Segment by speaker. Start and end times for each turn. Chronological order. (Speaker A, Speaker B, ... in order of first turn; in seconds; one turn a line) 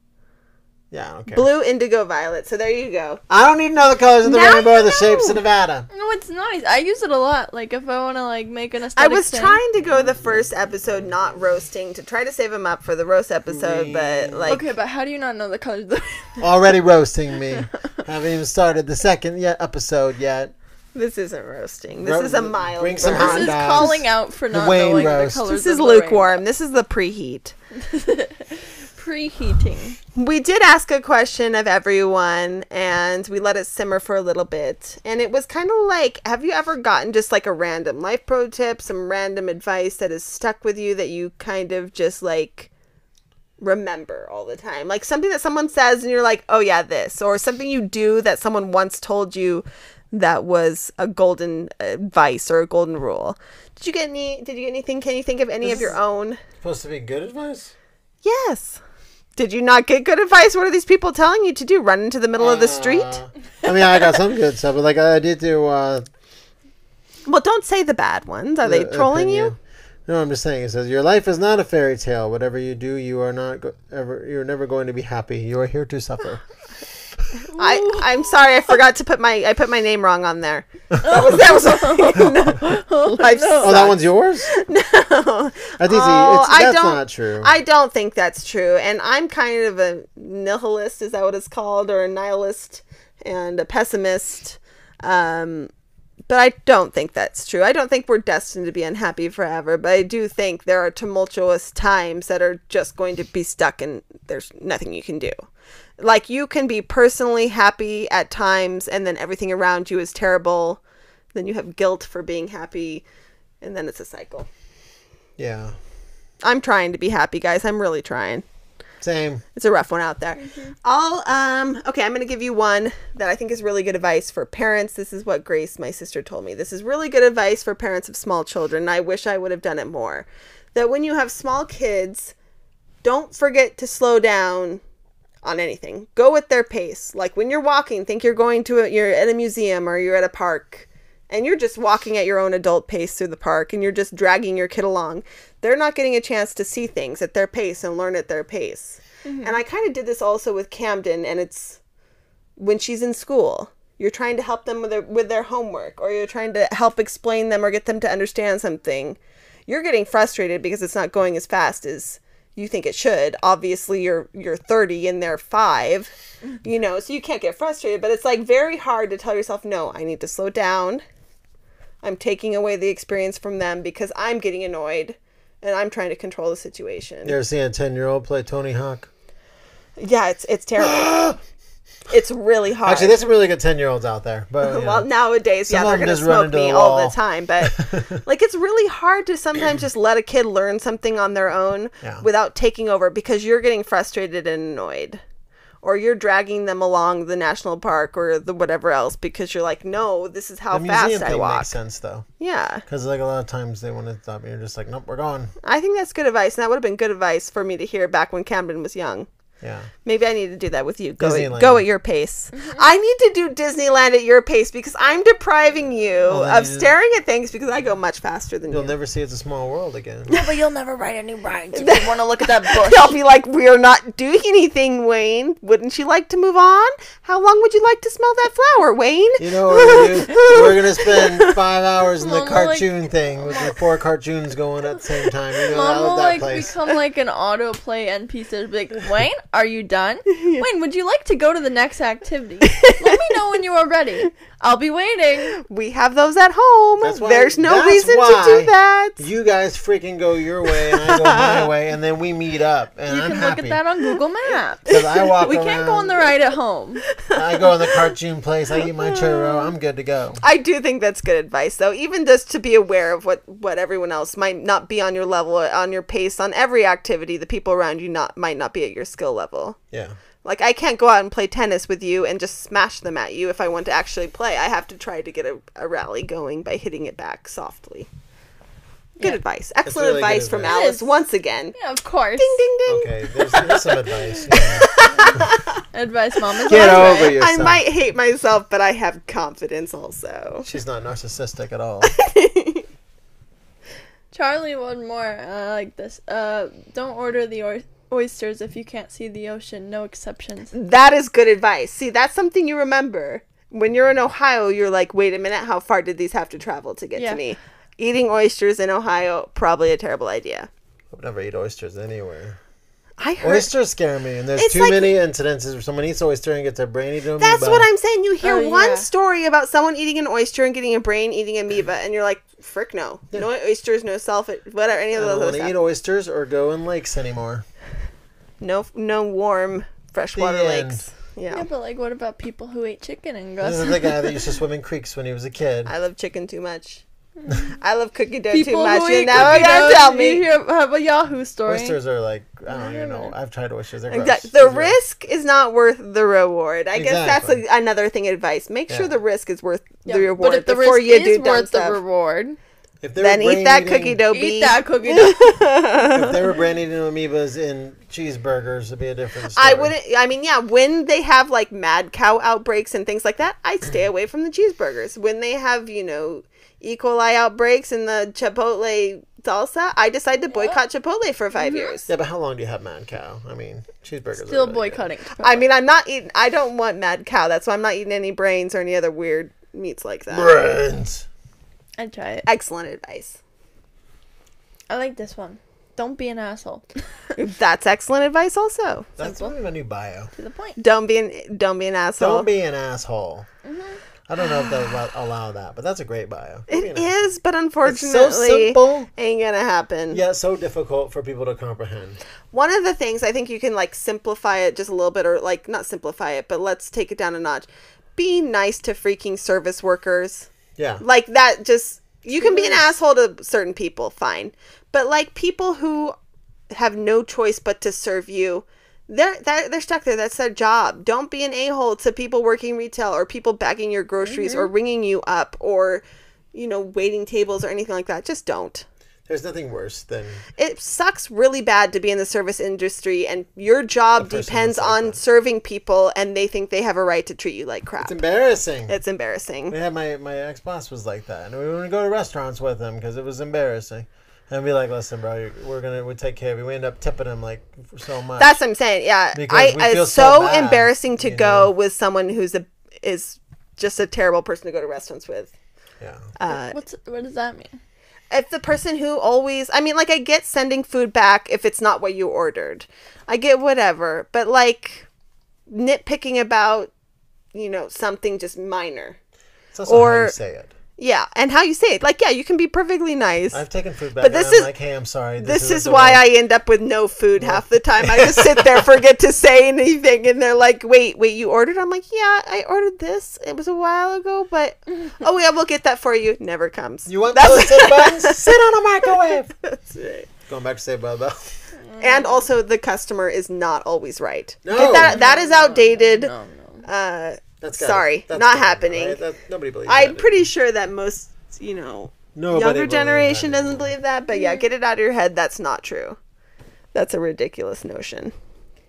Speaker A: 0.9-1.5
Speaker B: 1.3-3.2
Speaker A: 3.3-5.9
Speaker C: 4.2-9.6
Speaker B: 9.0-14.6
Speaker A: 13.5-14.6
Speaker C: 14.5-16.5
Speaker A: 16.4-20.5
Speaker B: 20.9-23.6
Speaker A: 22.0-25.4
Speaker C: 23.0-26.4
Speaker B: 25.5-27.6
Speaker C: 27.8-30.0
Speaker B: 30.2-42.7
Speaker B: 43.6-56.4
Speaker A: 55.6-56.0
Speaker A: 56.6-57.7
Speaker B: 58.2-58.8
Speaker B: 59.4-63.2
Speaker A: 62.4-66.1
Speaker B: 67.3-69.5
Speaker A: 68.6-69.6
Speaker A: 70.1-76.4
Speaker B: 77.4-95.7
Speaker C: 77.5-78.8
Speaker A: 80.9-81.2
Speaker C: 81.1-83.8
Speaker A: 83.6-84.5
Speaker A: 85.8-87.5
Speaker B: 96.3-105.4
Speaker B: 106.0-110.8
Speaker B: 111.3-113.0
Speaker B: 113.6-114.5
Speaker A: 115.4-115.8
Speaker B: 116.4-118.4
Speaker A: 119.0-119.4
Speaker B: 119.6-132.3
Speaker C: 120.4-120.7
Speaker B: 133.0-134.8
Speaker B: 135.4-151.8
Speaker C: 149.2-149.6
Speaker B: 152.6-171.0
Speaker B: 172.0-177.4
Speaker A: 177.2-179.1
Speaker B: 180.0-181.3
Speaker A: 180.8-181.4
Speaker B: 182.1-183.2
Speaker A: 182.8-185.1
Speaker B: 184.6-195.2
Speaker A: 185.7-188.2
Speaker B: 195.8-201.7
Speaker A: 200.7-202.3
Speaker B: 202.4-202.8
Speaker A: 202.9-205.5
Speaker B: 205.6-209.3
Speaker A: 209.6-209.9
Speaker B: 210.0-218.9
Speaker A: 211.2-211.8
Speaker C: 212.5-212.8
Speaker A: 216.3-216.9
Speaker A: 218.7-220.3
Speaker C: 220.3-223.2
Speaker B: 221.7-231.6
Speaker A: 229.4-236.7
Speaker C: 232.2-233.8
Speaker C: 235.7-245.6
Speaker B: 240.3-240.7
Speaker B: 242.7-243.4
Speaker B: 245.6-249.2
Speaker A: 247.0-253.8
Speaker B: 250.7-251.7
Speaker C: 253.1-257.1
Speaker A: 254.9-256.4
Speaker B: 254.9-255.4
Speaker A: 257.3-260.4
Speaker B: 258.8-259.7
Speaker B: 260.4-269.8
Speaker A: 269.9-270.2
Speaker B: 270.4-278.1
Speaker B: 279.2-281.8
Speaker A: 279.8-280.8
Speaker C: 280.7-281.2
Speaker C: 281.7-282.6
Speaker B: 282.4-283.9
Speaker A: 282.9-285.4
Speaker B: 284.5-285.8
Speaker C: 285.0-287.4
Speaker B: 286.7-290.7
Speaker A: 286.7-287.8
Speaker A: 290.6-292.1
Speaker B: 292.0-292.9
Speaker C: 294.3-300.7
Speaker B: 300.7-310.7
Speaker C: 307.2-307.4
Speaker A: 311.1-312.6
Speaker B: 313.2-313.7
Speaker A: 313.4-317.9
Speaker B: 314.6-315.1
Speaker B: 317.4-325.7
Speaker C: 318.4-319.1
Speaker A: 325.2-327.6
Speaker B: 328.6-331.7
Speaker A: 330.4-331.1
Speaker C: 331.5-334.4
Speaker A: 333.6-335.9
Speaker B: 335.9-337.0
Speaker C: 337.4-337.8
Speaker B: 337.8-340.4
Speaker C: 338.5-342.0
Speaker A: 339.3-339.8
Speaker A: 341.7-345.0
Speaker C: 342.7-343.3
Speaker B: 344.1-352.0
Speaker A: 346.9-347.6
Speaker A: 348.9-349.1
Speaker C: 350.1-352.6
Speaker A: 353.0-354.2
Speaker B: 353.2-356.4
Speaker C: 354.3-355.6
Speaker A: 356.1-359.9
Speaker B: 359.6-372.1
Speaker C: 370.5-370.8
Speaker C: 371.6-371.9
Speaker A: 372.1-375.1
Speaker C: 374.4-375.7
Speaker B: 375.4-380.6
Speaker A: 380.3-381.3
Speaker C: 382.0-382.5
Speaker B: 382.4-383.4
Speaker C: 384.9-387.4
Speaker B: 387.4-389.1
Speaker A: 389.2-390.3
Speaker C: 389.2-389.5
Speaker C: 390.4-390.8
Speaker B: 390.8-392.5
Speaker A: 392.2-393.5
Speaker C: 393.6-394.0
Speaker A: 394.3-397.1
Speaker B: 396.7-400.2
Speaker A: 397.8-399.1
Speaker A: 400.1-402.2
Speaker B: 402.5-410.5
Speaker A: 410.8-411.0
Speaker B: 411.0-416.1
Speaker C: 412.4-412.9
Speaker B: 416.7-428.9
Speaker C: 424.2-424.7
Speaker A: 429.3-430.4
Speaker B: 430.6-438.2
Speaker A: 434.1-435.2
Speaker A: 438.0-439.0
Speaker B: 438.9-439.8
Speaker A: 439.7-448.6
Speaker B: 448.4-455.5
Speaker A: 449.3-451.7
Speaker A: 456.0-456.3
Speaker B: 456.4-456.8
Speaker C: 456.5-457.8
Speaker B: 458.3-465.1
Speaker B: 465.7-466.9
Speaker B: 467.5-469.2
Speaker A: 469.7-470.7
Speaker B: 469.9-470.4
Speaker B: 471.0-473.6
Speaker A: 473.5-476.2
Speaker B: 474.2-474.7
Speaker B: 475.4-490.3
Speaker A: 477.4-478.8
Speaker A: 487.1-489.5
Speaker A: 490.5-491.6
Speaker C: 491.8-492.5
Speaker B: 492.0-496.3
Speaker A: 494.6-495.2
Speaker C: 494.8-496.9
Speaker B: 496.9-499.2
Speaker A: 497.6-500.4
Speaker B: 499.9-506.2
Speaker A: 502.4-503.9
Speaker C: 504.3-504.7
Speaker B: 506.9-508.3